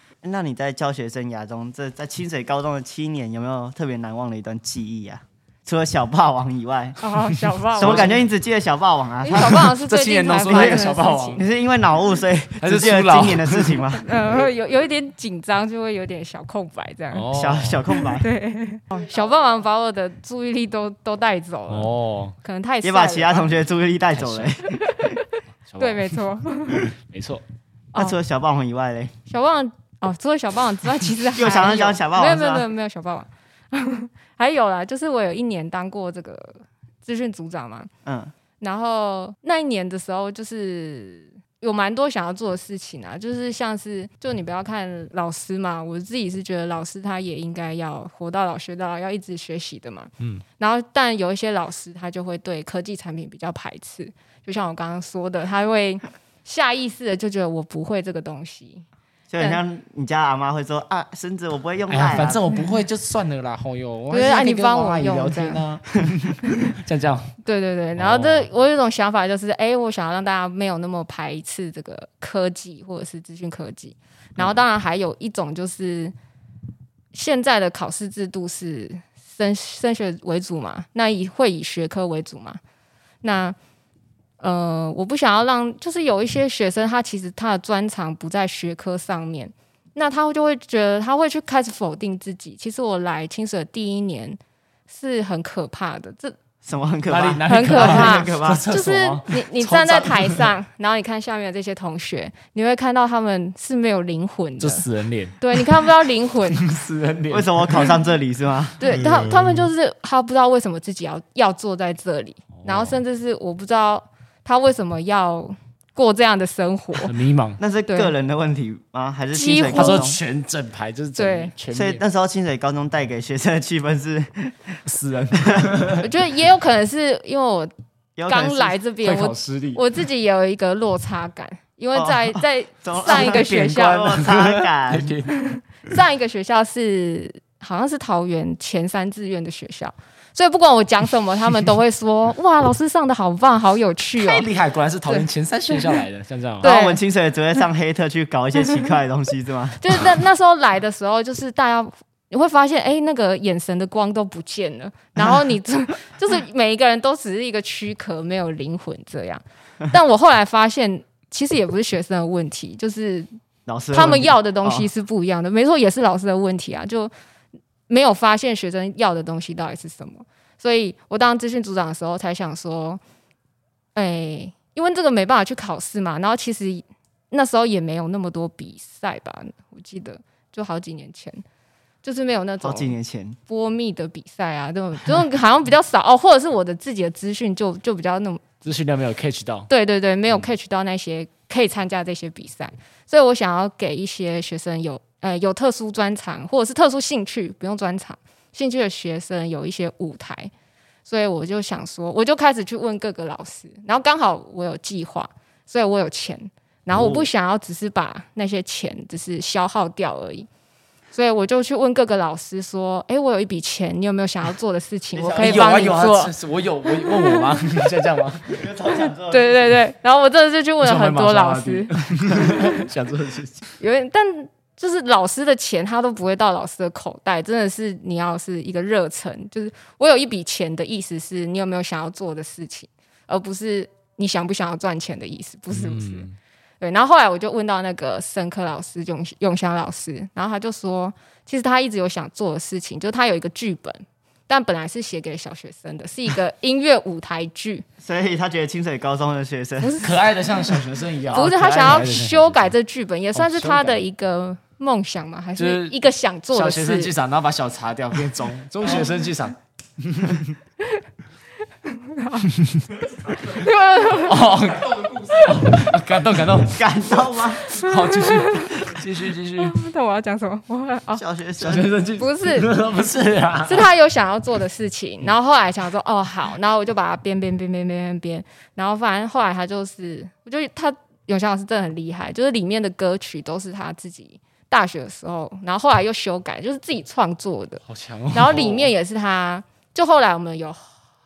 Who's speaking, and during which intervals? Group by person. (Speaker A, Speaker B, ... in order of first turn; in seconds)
Speaker A: 0.2-7.0, 7.8-9.7, 10.4-14.1, 17.3-18.3, 22.8-25.0, 27.9-29.1, 31.3-32.7, 38.0-38.3, 59.3-62.4, 96.6-98.7, 107.3-108.9, 117.6-120.2, 121.7-124.8, 128.2-128.8, 131.9-135.1, 146.6-150.0, 163.7-164.9, 182.6-183.4, 206.9-207.2, 215.2-216.0, 218.5-219.8, 248.0-250.0, 251.3-252.1, 266.7-267.6, 271.1-271.9
Speaker B: 7.0-8.1, 9.2-11.4, 14.0-17.3, 17.9-23.5, 24.7-26.9, 29.3-37.9, 38.6-58.9, 64.1-65.7, 67.4-76.1, 77.1-82.6, 83.2-83.6, 84.4-96.4, 97.5-104.9, 105.4-106.6, 108.8-117.2, 117.9-118.1, 119.3-120.0, 121.2-121.5, 126.0-127.7, 128.3-134.2, 135.3-144.5, 145.1-145.9, 146.6-147.0, 149.8-163.3, 163.9-167.1, 167.9-173.0, 173.9-181.4, 182.0-183.0, 183.5-188.5, 189.7-200.5, 201.1-210.5, 211.1-216.3, 216.9-217.5, 218.9-222.8, 223.8-236.3, 236.8-247.8, 249.8-250.2, 251.3-257.1, 261.9-262.5, 263.3-264.4, 267.7-268.8, 269.6-271.2, 272.2-272.7, 273.6-290.9
Speaker C: 7.8-8.2, 9.3-11.4, 12.6-13.8, 17.1-17.9, 21.7-22.3, 24.1-24.5, 25.7-26.2, 26.9-27.4, 61.9-67.3, 68.0-68.5, 97.1-100.5, 104.6-105.8, 106.5-107.9, 109.0-109.6, 112.6-113.0, 117.0-117.6, 119.7-122.0, 124.9-126.1, 129.0-129.8, 133.9-135.3, 144.2-146.7, 188.6-189.7, 215.2-218.7, 220.8-223.6, 235.7-236.3, 250.0-252.7, 253.3-254.0, 255.6-256.0, 256.5-260.5, 264.2-266.8, 267.7-269.8, 271.6-273.9, 287.9-288.9